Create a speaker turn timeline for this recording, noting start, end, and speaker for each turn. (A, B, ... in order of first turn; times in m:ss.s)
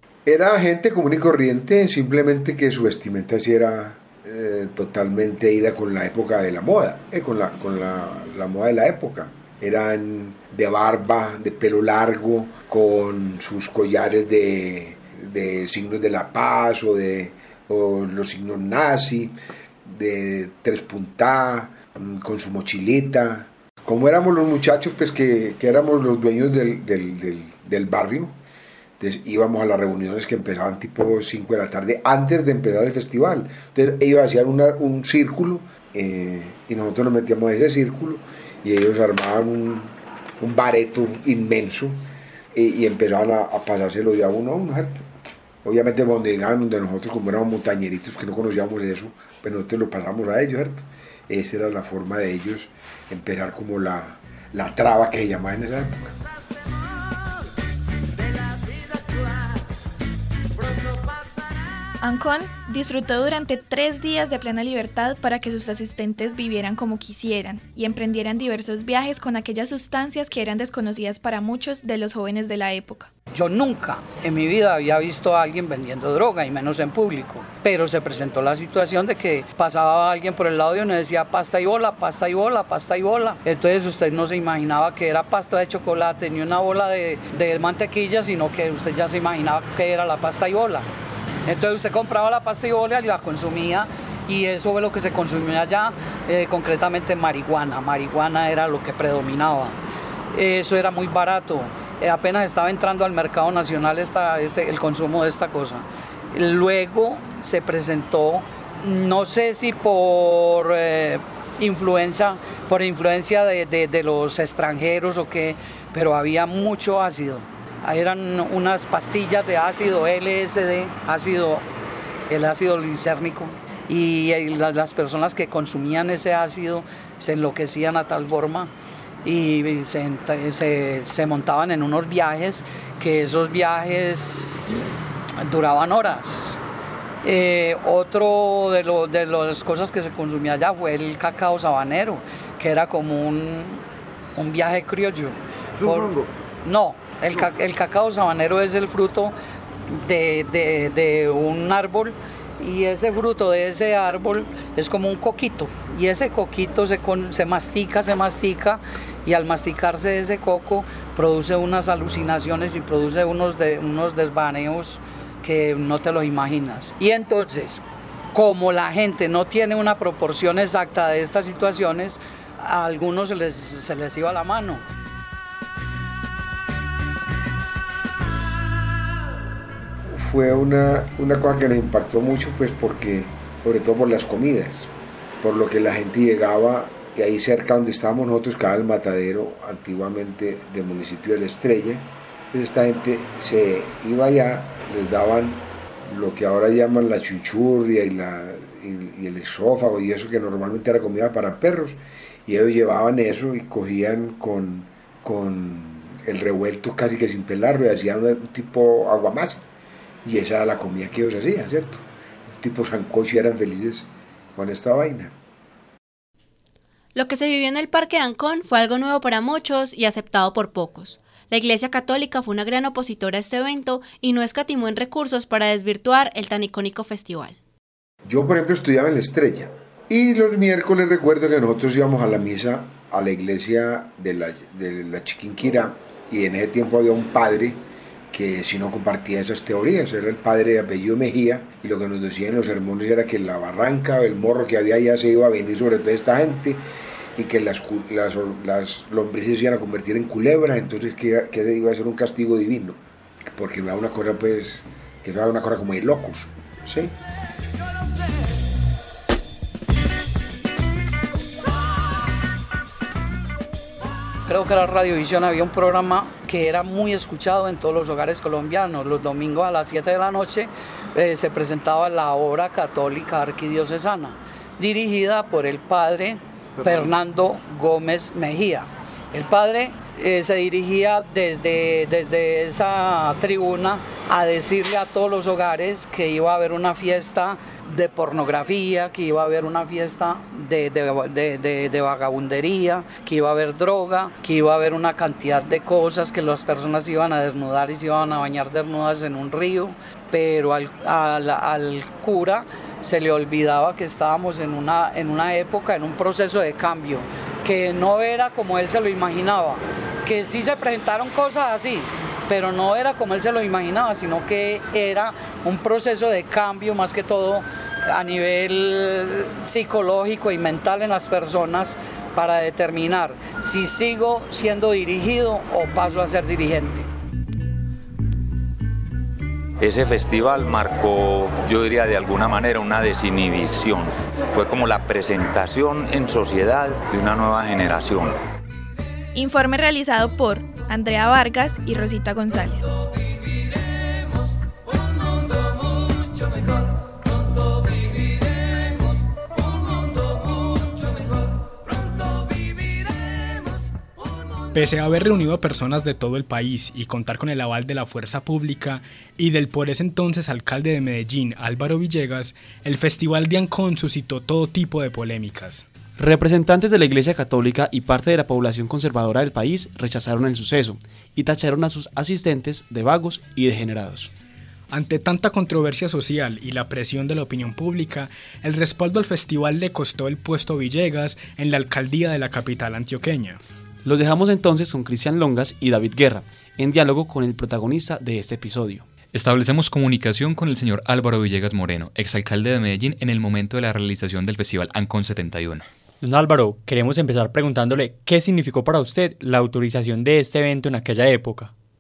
0:00.3-0:28.4 A
0:29.0-0:42.0 A
0:42.5-0:45.1 A
0:45.6-0:56.1 A
1:02.0-1:13.1 B
1:13.3-1:30.9 C
1:31.5-1:39.8 C
1:40.3-2:01.6 C
2:02.3-2:08.7 C
2:09.2-2:14.6 C
2:15.4-2:16.6 C
2:17.2-2:23.8 C
2:24.4-2:29.4 C
2:29.9-2:54.8 C
3:00.1-3:29.6 A
3:30.2-3:35.3 A
3:37.2-3:47.6 D
3:48.2-3:57.8 A
3:58.3-4:06.8 A
4:07.4-4:17.1 A
4:24.5-5:27.1 C
5:29.8-5:38.4 E
5:39.3-5:43.0 B
5:54.7-6:05.9 F
6:06.2-6:14.3 G
6:14.9-6:23.6 F
6:24.0-6:29.1 G
6:29.3-6:35.9 H
6:36.2-6:41.7 I